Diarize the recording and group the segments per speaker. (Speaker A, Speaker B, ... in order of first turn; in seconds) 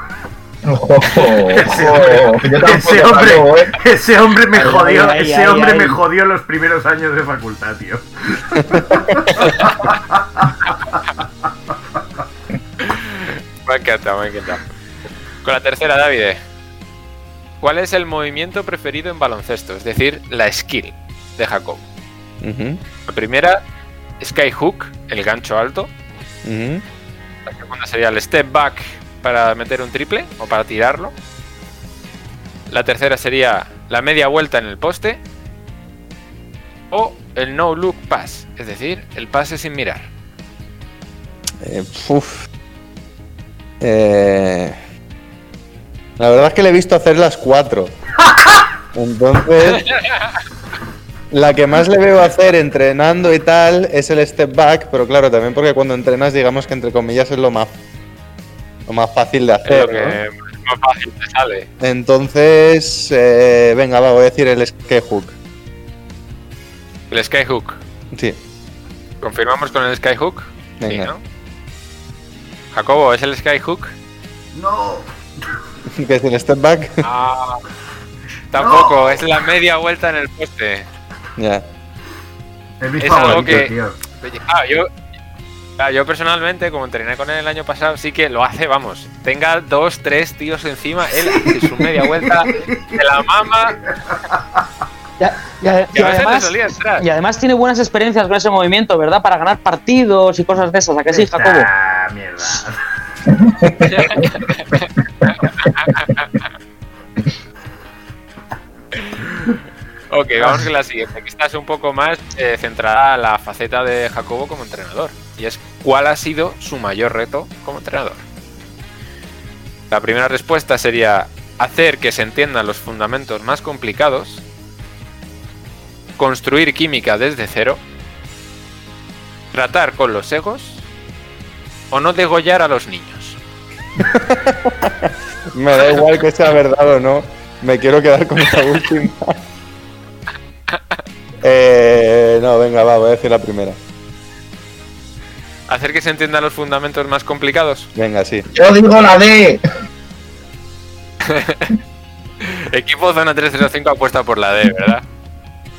Speaker A: 0.6-3.8, 103.4-104.3, 148.5-149.6
Speaker B: 1.2-10.6, 74.5-75.1, 78.6-79.2, 82.8-84.0, 91.2-93.0, 93.7-94.6, 101.1-102.8, 110.3-110.7
Speaker C: 4.5-6.0, 95.2-101.7
Speaker D: 12.8-14.7, 15.4-16.4, 17.6-21.9, 23.1-23.6, 24.2-25.9, 27.4-31.1, 32.7-35.2, 36.9-40.1, 59.6-61.7, 67.1-67.8, 69.2-71.2, 72.7-73.9, 77.0-77.6, 78.5-80.9, 83.0-84.9, 85.8-93.8, 95.9-97.0, 103.8-104.9, 105.6-106.0, 110.1-118.2, 119.9-124.4, 126.2-127.8, 129.5-130.8, 131.9-133.4, 145.7-147.9, 151.2-151.7, 152.4-155.0
Speaker E: 22.4-22.8, 26.4-26.8, 41.6-42.5, 43.8-44.8, 46.2-47.9, 48.9-49.9, 51.3-57.8, 58.9-60.2, 61.8-65.3, 68.1-68.4, 70.8-71.1, 75.9-77.0, 81.4-81.6, 134.0-139.4, 141.4-143.8, 147.9-148.5